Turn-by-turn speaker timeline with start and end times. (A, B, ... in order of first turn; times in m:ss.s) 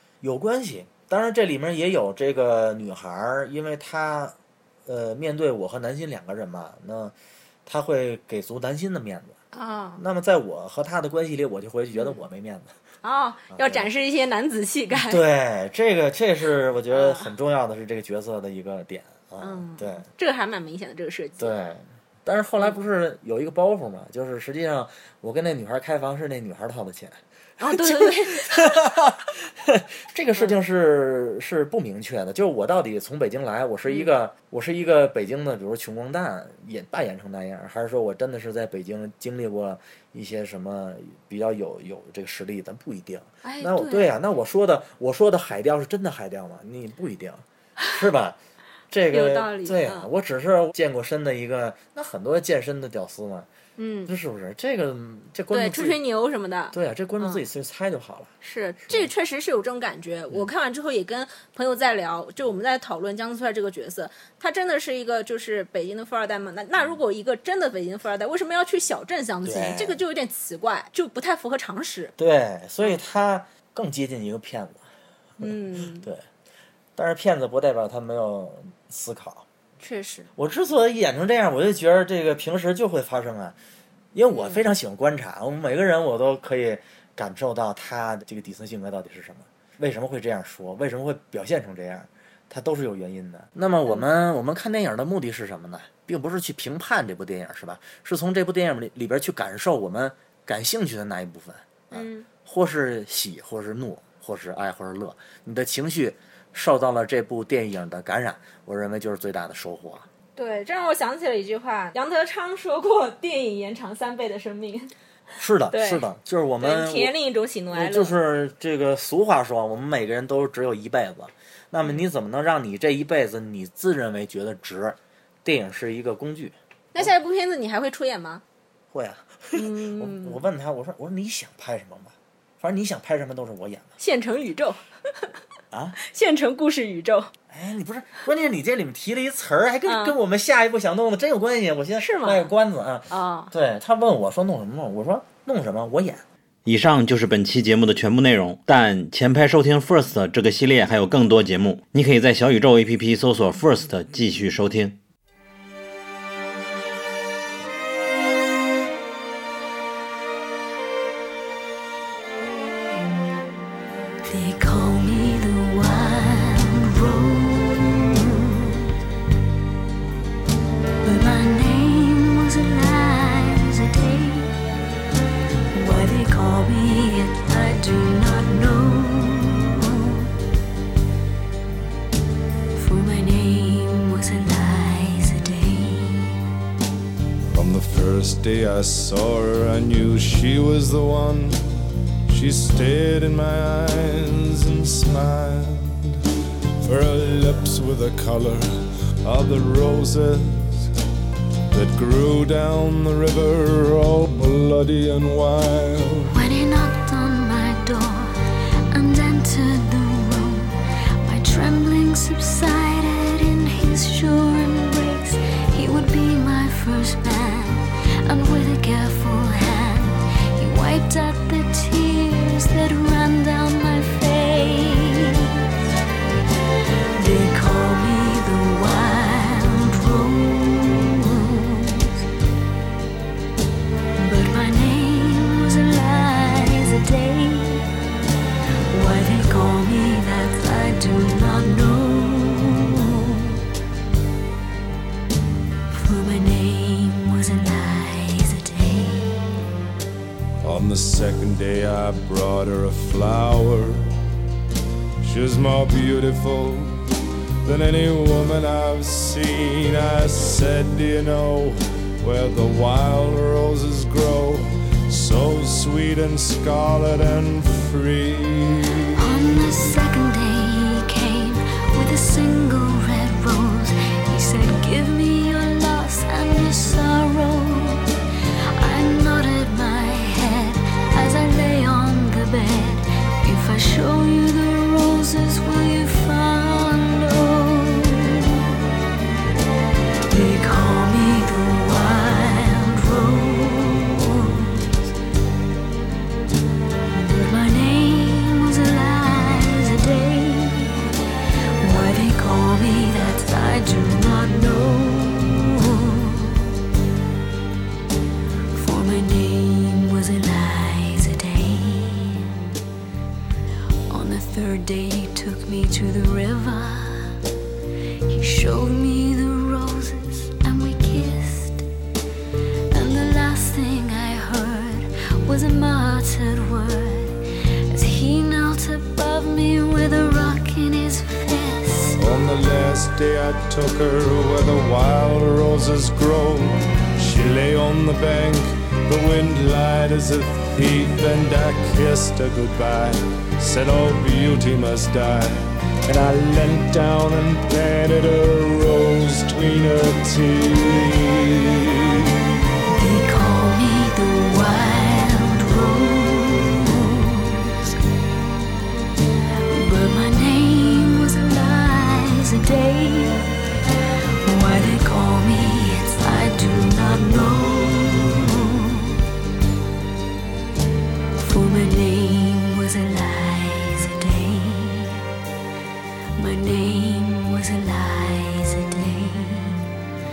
0:00.2-0:04.4 A
0:04.9-0:07.2 A
0:07.7-0:09.4 A
0:09.5-0:10.0 B
0:10.0-0:12.7 A
0:11.9-0:12.2 B
0:13.0-0:15.2 B
0:13.5-0:13.9 A
0:15.0-0:20.0 A
0:16.9-0:17.3 B
0:19.4-0:21.6 B
0:21.4-0:29.2 A
0:27.6-0:28.6 B
0:29.7-0:48.4 A
0:33.9-0:34.1 B
0:43.4-0:44.1 B
0:48.9-0:53.5 A
0:49.1-0:50.1 B
0:53.8-0:54.1 B
0:54.1-0:56.0 A
0:55.5-0:57.4 B
0:56.7-0:58.3 A
0:58.4-1:12.1 B
0:58.8-0:59.1 A
1:09.4-1:10.0 A
1:12.2-1:14.8 A
1:15.4-1:16.2 A
1:15.4-1:16.1 B
1:17.0-1:19.5 A
1:19.8-1:20.3 B
1:20.4-1:23.6 A
1:24.1-1:50.1 A
1:24.3-1:24.6 B
1:41.9-1:42.2 B
1:50.4-1:54.9 B
1:55.4-1:57.1 A
1:55.7-1:56.1 B
1:56.6-1:58.2 B
1:57.7-2:07.1 A
2:07.0-2:08.4 B
2:08.9-2:13.9 A
2:09.6-2:10.5 B
2:14.0-2:14.8 B
2:15.7-2:16.0 A
2:16.0-2:17.3 B
2:17.5-2:26.2 A
2:19.9-2:20.2 B
2:22.0-2:22.5 B
2:23.1-2:23.5 B
2:26.6-2:35.0 C
2:44.2-2:48.8 D
2:51.0-2:54.6 D
2:55.7-3:00.3 D
3:02.8-3:06.4 D
3:07.5-3:16.2 E
3:16.8-3:20.9 E
3:21.7-3:26.4 E
3:26.3-3:45.6 D
3:47.2-3:52.2 D
3:54.2-3:57.9 D
3:58.9-4:03.6 D
4:05.9-4:09.4 D
4:10.6-4:14.1 E
4:15.2-4:17.0 E
4:17.6-4:29.2 E
4:29.2-4:38.1 D
4:38.8-4:48.7 D
4:50.3-4:54.8 D
4:57.1-5:01.1 D
5:01.8-5:06.6 D
5:08.7-5:12.5 D
5:14.1-5:17.3 D
5:18.3-5:21.9 D
5:22.9-5:32.2 D
5:32.2-5:52.2 E
5:52.9-5:58.0 D
5:59.7-6:03.5 D
6:04.4-6:09.2 D
6:11.4-6:15.2 D
6:16.4-6:19.9 D